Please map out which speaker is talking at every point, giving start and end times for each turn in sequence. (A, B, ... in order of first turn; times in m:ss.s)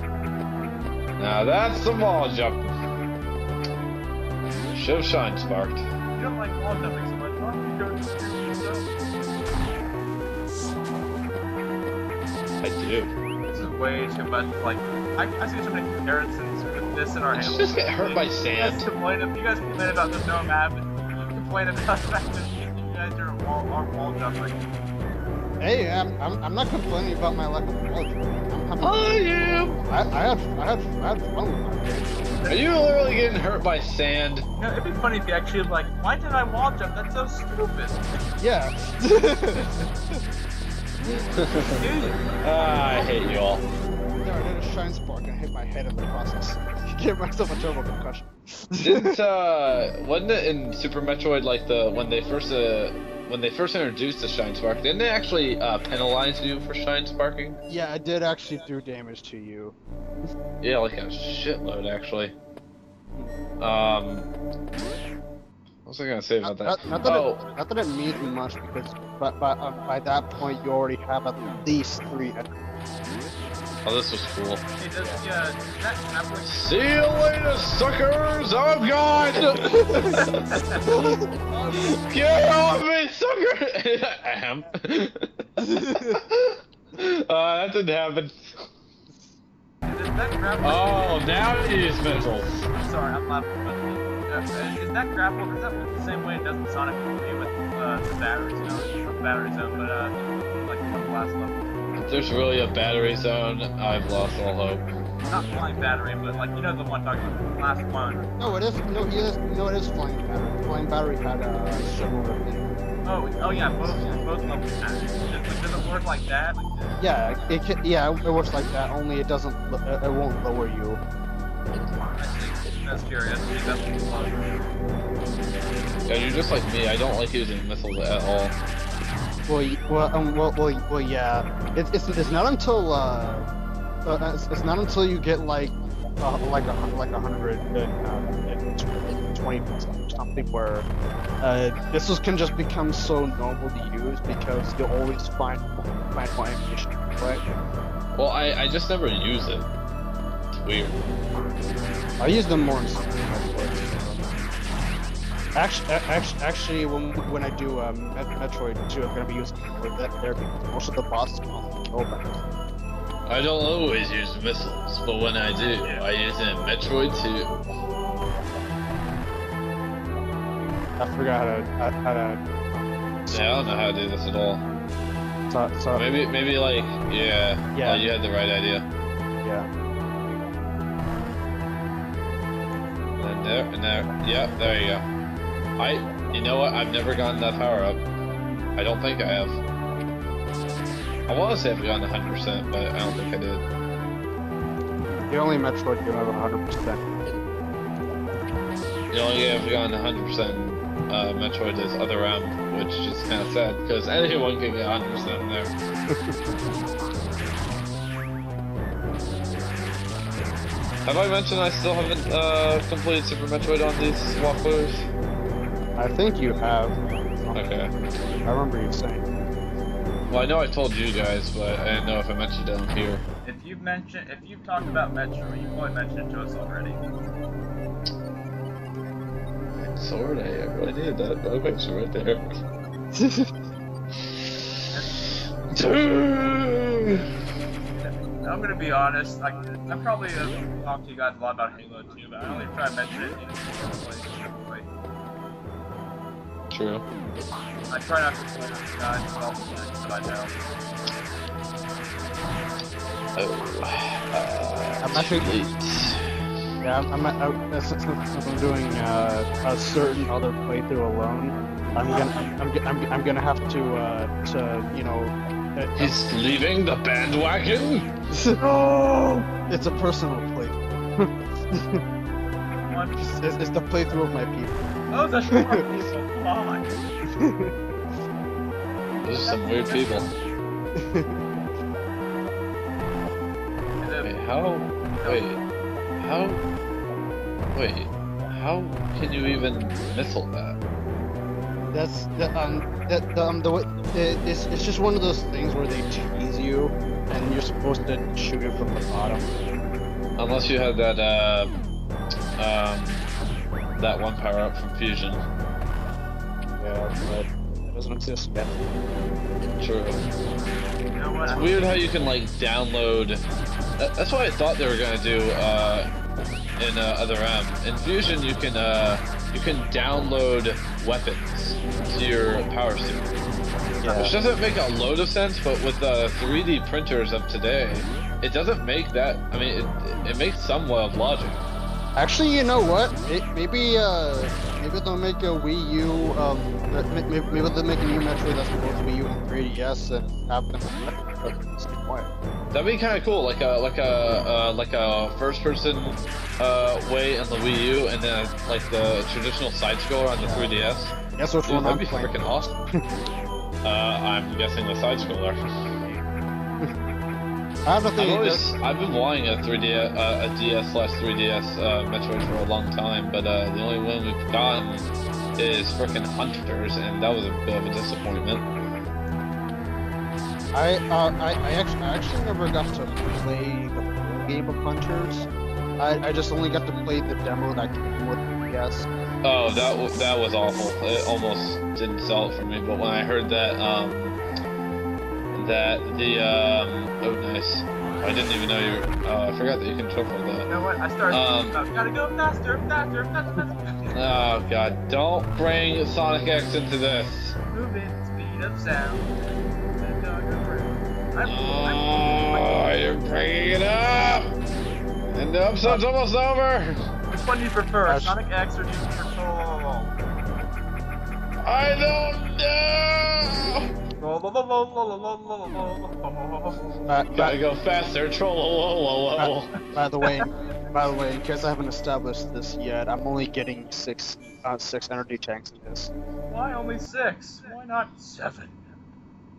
0:01.2-0:02.7 A
0:04.7-0:05.8 A
0:06.2-0:08.8 B
0:12.6-0:13.1 A
0:13.5-0:24.6 B
0:17.3-0:18.9 A
0:25.6-0:29.2 C
0:28.8-0:29.8 A
0:29.8-0:32.3 C
0:32.5-0:34.4 A
0:34.6-0:38.0 B
0:38.4-0:40.2 C
0:41.4-0:41.8 A
0:41.6-0:42.4 B
0:42.4-0:43.6 A
0:44.2-0:49.2 C
0:48.8-0:57.6 A
0:57.7-0:59.7 C
1:00.6-1:02.3 A
1:03.6-1:04.3 A
1:05.8-1:07.4 A
1:06.4-1:12.5 C
1:13.8-1:14.6 A
1:14.8-1:16.7 B
1:16.4-1:20.2 A
1:19.4-1:20.1 C
1:20.1-1:20.8 B
1:21.8-1:25.3 A
1:25.6-1:26.2 C
1:26.2-1:28.4 A
1:29.8-1:31.3 B
1:30.6-1:32.6 A
1:32.7-1:41.6 B
1:42.0-1:44.8 A
1:45.3-1:48.3 B
1:48.4-1:52.6 C
1:53.0-1:56.6 B
1:57.0-2:01.0 C
2:02.1-2:04.5 B
2:06.1-2:08.5 A
2:09.5-2:13.5 C
2:14.0-2:20.8 C
2:21.4-2:27.4 C
2:28.2-2:29.7 A
2:30.5-2:31.0 A
2:32.2-2:34.4 C
2:35.6-2:42.4 C
2:43.3-2:47.5 A
2:45.5-2:46.1 B
2:51.0-2:53.4 C
2:53.3-2:54.6 A
2:55.5-2:56.1 C
2:55.9-2:58.8 A
2:57.7-2:58.0 C
2:59.4-2:59.7 C
3:03.2-3:05.0 A
3:05.8-3:08.0 A
3:08.8-3:09.6 A
3:11.3-3:13.6 A
3:15.3-3:17.1 C
3:19.1-3:25.7 A
3:31.0-3:35.1 A
3:36.0-3:37.8 C
3:37.5-3:37.9 A
3:38.4-3:39.2 C
3:40.3-3:43.2 A
3:43.4-3:47.0 B
3:49.8-3:52.4 A
3:53.1-3:53.5 C
3:54.9-3:55.3 B
3:55.7-3:57.2 A
3:58.0-4:04.9 B
4:06.7-4:07.0 A
4:07.9-4:10.5 B
4:13.4-4:16.2 A
4:15.0-4:15.6 C
4:16.8-4:26.1 C
4:22.0-4:22.4 B
4:26.0-4:28.1 A
4:28.3-4:28.6 C
4:28.6-4:29.5 B
4:29.7-4:32.0 C
4:32.9-4:33.5 B
4:33.2-4:35.8 C
4:35.1-4:36.9 B
4:37.4-4:37.7 C
4:39.2-4:40.3 A
4:39.4-4:40.3 B
4:41.0-4:41.4 C
4:44.0-4:44.3 B
4:44.2-4:45.6 A
4:45.1-4:45.5 B
4:46.2-4:46.6 A
4:47.7-4:50.8 A
4:51.9-4:59.4 C
5:00.4-5:01.8 A
5:02.6-5:03.3 A
5:04.0-5:05.4 A
5:06.8-5:08.9 C
5:09.8-5:10.2 A
5:11.1-5:11.9 B
5:11.5-5:13.4 A
5:14.0-5:16.1 A
5:16.8-5:23.3 A
5:24.0-5:24.3 C
5:24.0-5:31.6 A
5:32.2-5:42.3 C
5:42.7-5:51.1 A
5:50.4-5:50.7 C
5:51.4-5:52.8 C
5:51.6-5:52.7 A
5:53.8-5:55.6 A
5:57.8-5:58.7 C
5:58.2-6:08.6 A
6:10.7-6:15.5 C
6:16.0-6:19.1 C
6:19.4-6:24.4 A
6:25.5-6:30.7 A
6:30.7-6:34.2 B
6:31.3-6:31.8 A
6:34.1-6:37.6 A
6:37.7-6:39.3 B
6:40.0-6:42.8 B
6:41.4-6:44.5 A
6:45.3-6:47.0 A
6:47.3-6:50.1 B
6:48.0-6:48.4 C
6:51.6-6:53.8 A
6:54.2-6:57.1 B
6:57.1-6:57.6 C
6:57.3-6:59.7 A
6:59.4-7:06.1 C
7:00.2-7:00.7 B
7:06.5-7:08.8 B